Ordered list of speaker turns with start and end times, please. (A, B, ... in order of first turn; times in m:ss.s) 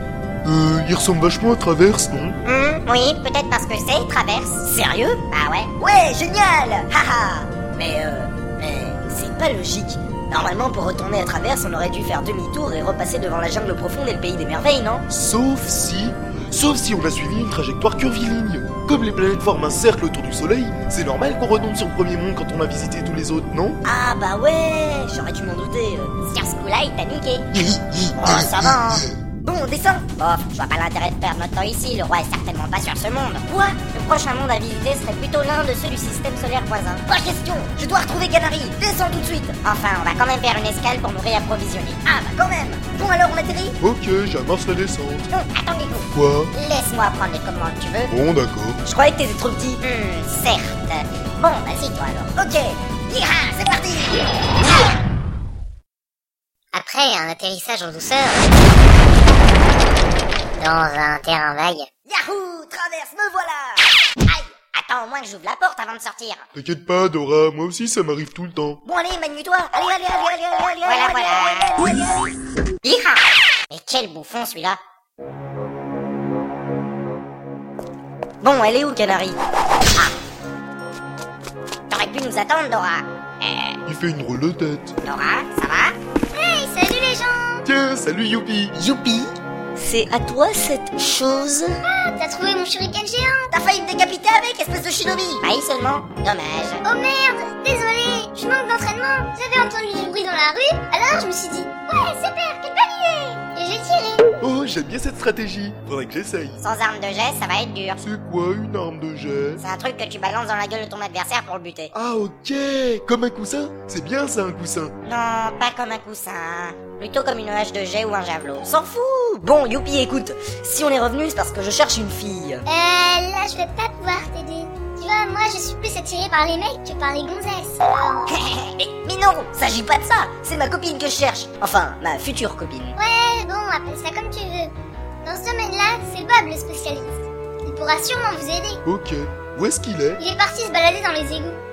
0:00.4-0:02.4 A
0:02.5-0:04.7 B
0:04.6-0:05.2 C
0:05.3-0:05.7 B
0:05.8-0:15.0 C
0:15.1-0:23.8 A
0:23.8-0:26.1 C
0:26.2-0:27.5 B
0:27.5-0:29.2 A
0:28.2-0:29.0 B
0:29.4-0:30.2 C
0:30.2-0:33.5 B
0:33.5-0:35.8 C
0:35.7-0:37.0 B
0:37.0-0:39.6 C
0:39.6-0:42.0 B
0:42.0-0:43.8 C
0:43.8-0:45.3 A
0:45.3-0:48.1 B
0:46.1-0:46.5 A
0:48.1-0:48.8 A
0:48.8-0:49.8 C
0:49.8-0:52.3 B
0:52.4-0:52.8 C
0:53.1-0:54.1 B
0:53.7-0:54.1 C
0:56.7-0:58.5 B
1:00.6-1:01.9 B
1:02.0-1:03.8 C
1:04.3-1:06.5 B
1:06.5-1:08.8 A
1:08.8-1:12.3 C
1:10.8-1:11.9 B
1:12.8-1:14.8 B
1:18.4-1:19.4 C
1:21.9-1:23.8 B
1:23.8-1:24.9 A
1:25.0-1:26.0 B
1:26.3-1:27.6 D
1:27.6-1:28.7 A
1:28.8-1:31.8 C
1:31.9-1:33.4 D
1:33.5-1:35.4 C
1:35.4-1:36.8 B
1:36.8-1:44.2 D
1:44.4-1:46.6 A
1:46.6-1:48.0 B
1:48.0-1:49.6 A
1:49.6-1:51.9 B
1:51.9-1:54.9 A
1:55.0-1:58.7 B
1:58.6-2:02.6 C
2:02.7-2:08.2 D
2:08.5-2:13.0 C
2:13.0-2:14.7 D
2:15.2-2:18.8 D
2:18.8-2:20.2 A
2:20.2-2:21.6 D